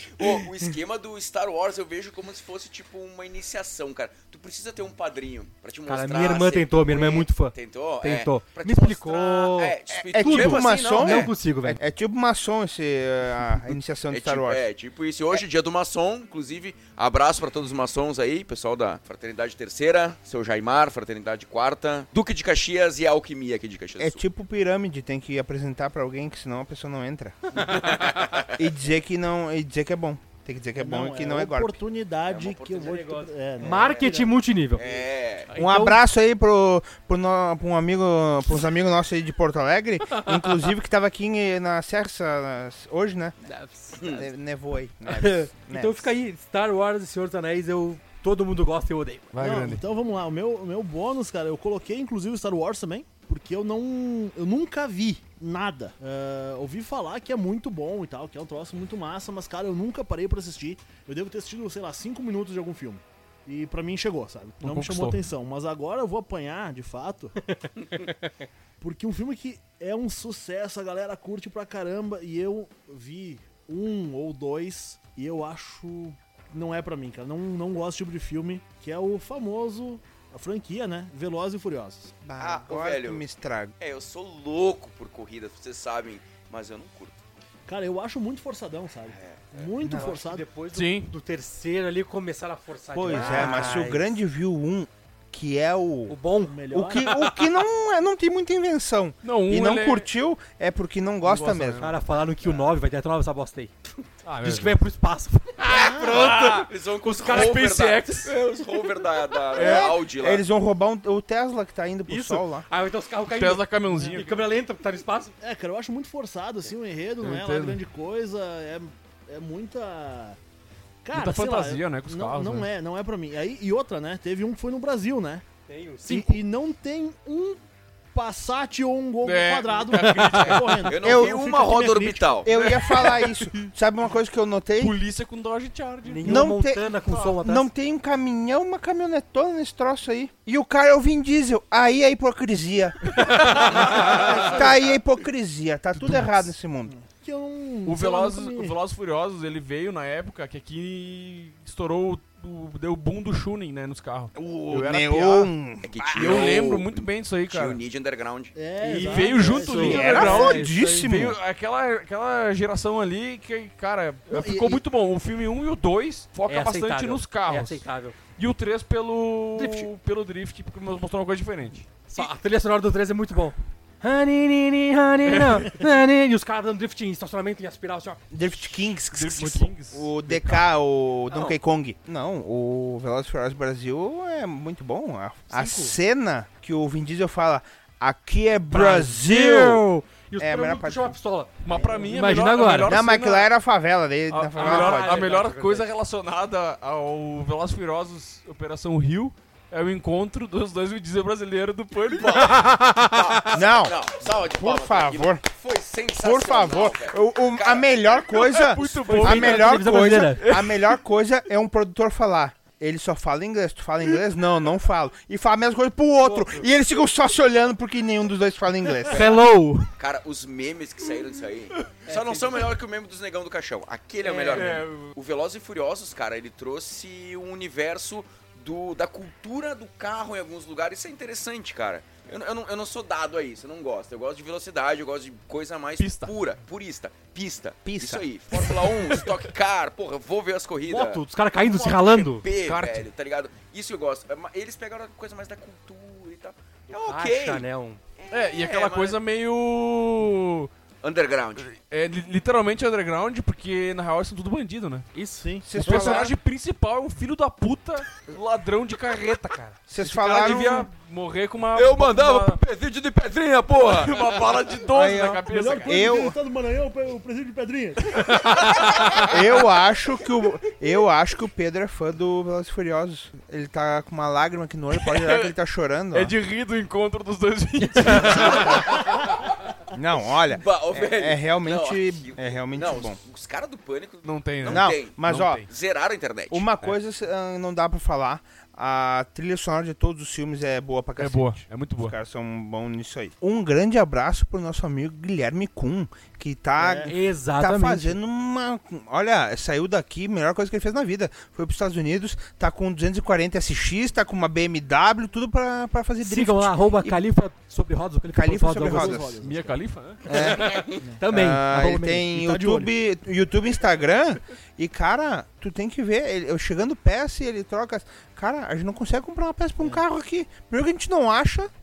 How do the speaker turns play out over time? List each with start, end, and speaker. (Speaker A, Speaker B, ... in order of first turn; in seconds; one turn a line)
Speaker A: 0.2-11.3
Speaker B: 5.9-11.8
Speaker C: 9.9-14.7
Speaker A: 14.1-24.2
Speaker C: 24.0-27.6
Speaker A: 27.6-28.5
Speaker C: 28.5-31.8
Speaker D: 30.8-34.4
Speaker A: 32.2-34.1
Speaker B: 32.8-36.0
Speaker A: 34.8-35.5
Speaker C: 35.5-43.3
Speaker B: 43.4-44.0
Speaker C: 44.0-46.1
Speaker A: 44.0-44.3
Speaker B: 45.1-49.3
Speaker E: 49.3-49.8
Speaker D: 49.4-67.3
Speaker E: 64.6-65.2
Speaker B: 67.5-68.1
Speaker D: 68.8-82.2
Speaker C: 82.2-83.7
Speaker A: 82.4-83.2
Speaker A: 83.8-87.2
Speaker D: 87.7-90.5
Speaker A: 89.1-89.7
Speaker C: 89.8-90.1
Speaker B: 89.9-94.1
Speaker E: 90.7-91.1
Speaker C: 92.9-96.2
Speaker B: 96.1-97.3
Speaker D: 96.4-97.3
Speaker C: 96.7-101.9
Speaker E: 99.2-100.1
Speaker E: 101.2-102.0
Speaker B: 101.8-103.7
Speaker E: 104.2-104.8
Speaker B: 104.4-106.7
Speaker D: 105.7-106.3
Speaker A: 105.8-110.4
Speaker E: 106.0-108.4
Speaker E: 109.5-109.9
Speaker C: 109.5-112.7
Speaker B: 112.1-115.3
Speaker E: 113.3-114.4
Speaker D: 113.9-114.2
Speaker D: 115.4-120.4
Speaker E: 117.2-117.8
Speaker D: 121.0-125.4
Speaker E: 121.1-122.7
Speaker B: 125.7-126.4
Speaker D: 126.1-127.6
Speaker D: 128.1-132.5
Speaker E: 129.2-130.9
Speaker A: 130.8-132.5
Speaker C: 131.0-131.4
Speaker C: 132.4-135.0
Speaker E: 132.6-133.2
Speaker E: 134.8-137.3
Speaker B: 136.1-137.7
Speaker C: 136.2-146.9
Speaker E: 143.1-144.8
Speaker E: 146.0-146.3
Speaker D: 146.9-148.8
Speaker E: 147.8-155.5
Speaker C: 154.3-156.6
Speaker A: 155.8-158.6
Speaker E: 156.1-157.8
Speaker D: 158.5-160.5
Speaker B: 158.8-161.1
Speaker E: 159.0-171.9
Speaker C: 159.8-161.4
Speaker D: 164.3-164.8
Speaker B: 166.5-168.2
Speaker B: 169.5-169.9
Speaker B: 172.1-178.6
Speaker E: 175.2-175.8
Speaker C: 178.3-189.8
Speaker E: 179.1-180.6
Speaker B: 185.5-185.9
Speaker B: 188.7-193.0
Speaker C: 190.4-191.2
Speaker E: 191.6-193.5
Speaker D: 191.7-192.1
Speaker C: 192.8-195.2
Speaker E: 194.3-202.8
Speaker B: 194.5-195.9
Speaker A: 202.1-208.2
Speaker C: 203.5-205.4
Speaker C: 206.2-219.3
Speaker E: 208.4-210.9
Speaker B: 209.0-210.4
Speaker B: 216.2-216.7
Speaker B: 219.1-219.9
Speaker A: 220.0-247.6
Speaker B: 222.0-222.7
Speaker B: 224.2-224.8
Speaker E: 224.5-225.1
Speaker E: 236.0-236.3
Speaker C: 237.8-238.3
Speaker B: 240.8-242.4
Speaker E: 242.6-243.0
Speaker B: 246.9-248.0
Speaker A: 248.2-249.2
Speaker E: 248.3-250.7
Speaker A: 251.0-251.7
Speaker E: 251.6-255.1
Speaker B: 255.1-255.9
Speaker D: 255.4-256.3
Speaker C: 255.6-256.3
Speaker E: 255.8-262.6
Speaker C: 259.9-260.9
Speaker A: 261.7-264.5
Speaker E: 263.9-266.1
Speaker C: 264.9-266.4
Speaker D: 265.4-268.2
Speaker E: 268.1-269.3
Speaker C: 269.2-276.3
Speaker E: 275.0-275.5
Speaker E: 276.1-279.4
Speaker B: 278.0-278.6
Speaker A: 278.2-279.0
Speaker C: 279.9-283.2
Speaker A: 280.5-286.7
Speaker E: 284.2-285.7
Speaker C: 284.6-285.6
Speaker C: 286.5-307.1
Speaker E: 291.2-292.1
Speaker D: 296.8-297.1
Speaker B: 297.1-298.2
Speaker B: 306.2-309.2
Speaker C: 308.3-309.3
Speaker D: 308.7-311.2
Speaker E: 309.4-310.8
Speaker C: 310.3-321.7
Speaker B: 310.3-312.2
Speaker D: 311.8-312.9